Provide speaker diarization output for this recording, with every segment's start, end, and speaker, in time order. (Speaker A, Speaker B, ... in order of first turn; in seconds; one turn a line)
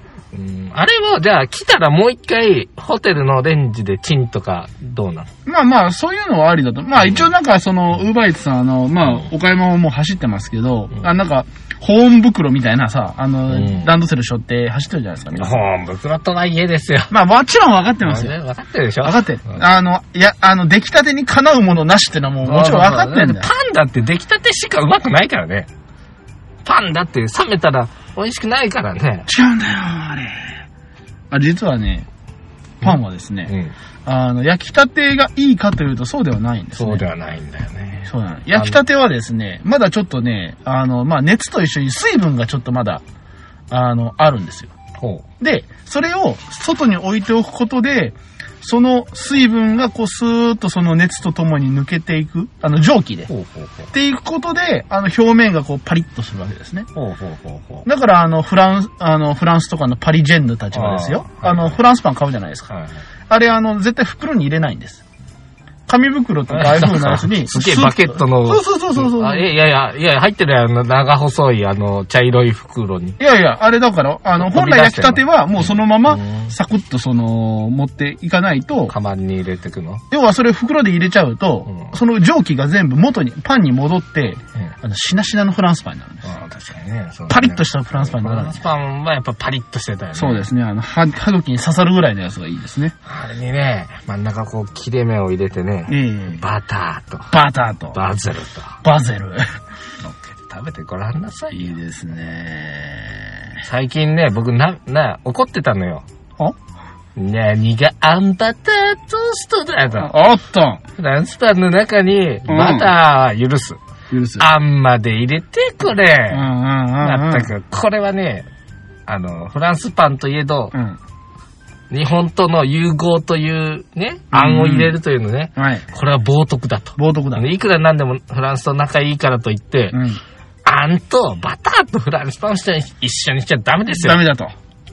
Speaker A: 0.3-5.3
Speaker B: 5.5-15.6
Speaker A: 7.0-7.3
Speaker A: 13.5-13.9
Speaker A: 15.3-17.1
Speaker B: 17.1-18.3
Speaker A: 18.0-19.5
Speaker B: 19.0-23.5
Speaker A: 22.4-25.7
Speaker A: 26.6-29.3
Speaker B: 29.3-30.6
Speaker B: 31.3-32.1
Speaker B: 32.8-33.5
Speaker A: 32.8-33.7
Speaker B: 34.0-37.0
Speaker A: 36.8-38.8
Speaker B: 38.0-43.0
Speaker B: 43.7-44.7
Speaker A: 45.0-45.2
Speaker B: 45.4-53.3
Speaker A: 53.3-53.9
Speaker B: 53.9-56.9
Speaker A: 56.9-57.9
Speaker B: 57.8-62.7
Speaker A: 60.7-61.8
Speaker A: 62.7-63.0
Speaker B: 63.3-65.0
Speaker B: 65.9-69.5
Speaker A: 66.5-73.2
Speaker B: 73.2-78.9
Speaker A: 74.4-76.5
Speaker A: 78.9-80.0
Speaker B: 80.1-86.2
Speaker A: 81.7-81.9
Speaker A: 86.2-90.5
Speaker B: 87.3-88.6
Speaker B: 90.1-92.9
Speaker A: 93.0-97.3
Speaker B: 95.9-96.4
Speaker B: 97.3-98.0
Speaker A: 97.9-98.8
Speaker B: 98.8-99.5
Speaker A: 100.0-101.7
Speaker B: 101.5-103.6
Speaker A: 103.6-106.0
Speaker A: 107.2-110.1
Speaker B: 110.0-110.8
Speaker A: 111.0-113.8
Speaker B: 112.5-112.9
Speaker B: 114.1-114.5
Speaker A: 114.4-116.5
Speaker B: 116.3-117.5
Speaker A: 117.0-118.4
Speaker A: 119.1-120.7
Speaker B: 120.7-121.0
Speaker A: 121.9-130.0
Speaker B: 124.3-124.9
Speaker B: 125.5-125.8
Speaker B: 127.0-127.5
Speaker B: 129.9-130.2
Speaker A: 130.6-134.2
Speaker B: 133.9-134.5